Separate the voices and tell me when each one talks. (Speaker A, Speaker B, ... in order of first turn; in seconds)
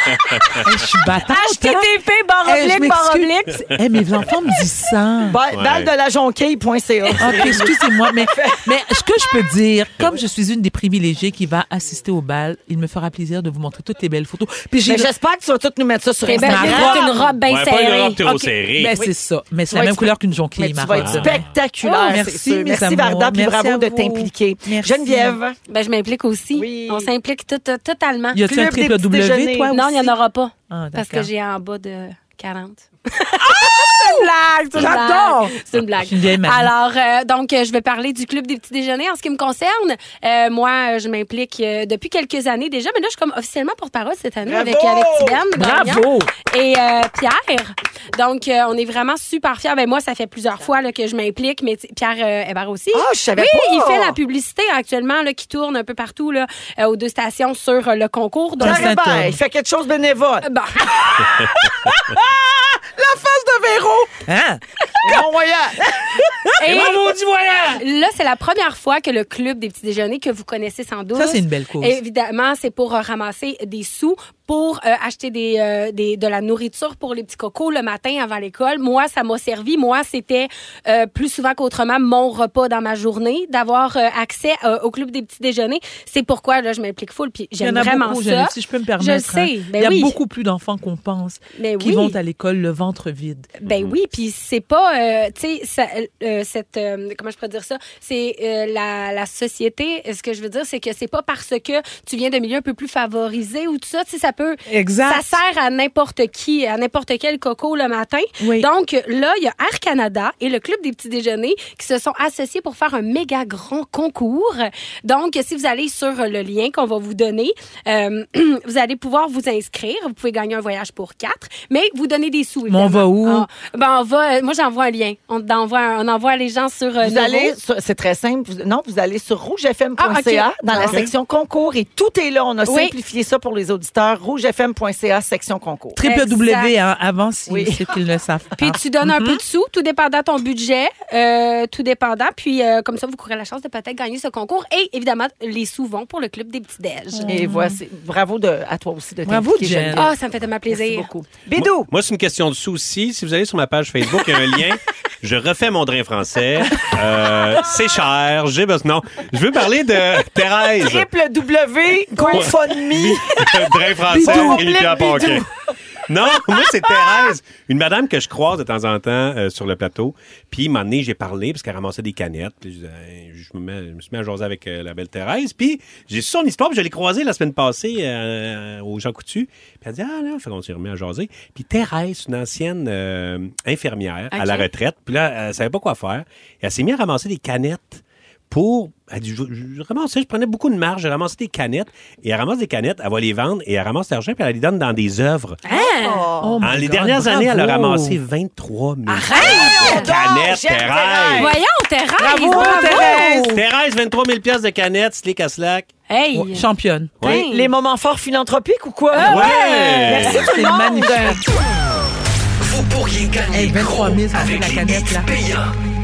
Speaker A: 0.6-1.9, 2.4-5.4, 7.2-15.1, 16.4-17.1, 18.7-25.4, 28.3-30.1, 30.7-31.3, 33.4-36.7, 45.5-46.3, 58.6-59.4, 61.7-62.2, 64.0-65.2, 66.0-66.9, 71.1-72.0, 87.6-93.5, 104.7-105.4, 108.4-108.7, 122.7-123.5, 135.9-139.4, 147.1-147.8, 149.2-150.1, 164.1-164.9, 196.4-198.2, 199.3-199.8, 202.2-203.6, 206.3-207.1, 209.3-211.4, 213.5-215.3
Speaker B: 1.3-3.6, 16.2-18.3, 21.8-22.2, 25.7-28.4, 29.7-58.9, 60.4-61.1, 66.6-67.1, 67.8-90.2, 91.6-92.2, 93.6-127.5, 130.0-131.1, 132.7-132.9, 136.0-136.7, 138.6-147.3, 149.9-151.1, 184.3-184.7, 195.6-196.3, 199.1-200.1, 201.4-203.4, 206.1-206.7, 207.2-207.7, 209.1-210.1
Speaker C: 5.3-7.7, 8.3-8.6, 14.8-17.3, 19.7-25.6, 26.5-27.1, 28.4-29.7, 44.4-45.4, 52.9-54.2, 58.6-60.5, 65.0-65.8, 127.0-136.0, 137.5-137.8, 147.3-150.1, 150.7-151.9, 160.8-165.4, 195.7-196.6, 199.4-201.5, 207.2-211.4
Speaker D: 5.5-5.9, 17.4-19.0, 21.0-21.4, 66.6-67.8, 93.6-94.0, 151.5-161.1, 162.3-165.4, 166.1-195.6, 196.6-201.6, 202.8-205.9, 209.3-210.4
Speaker E: 212.7-215.7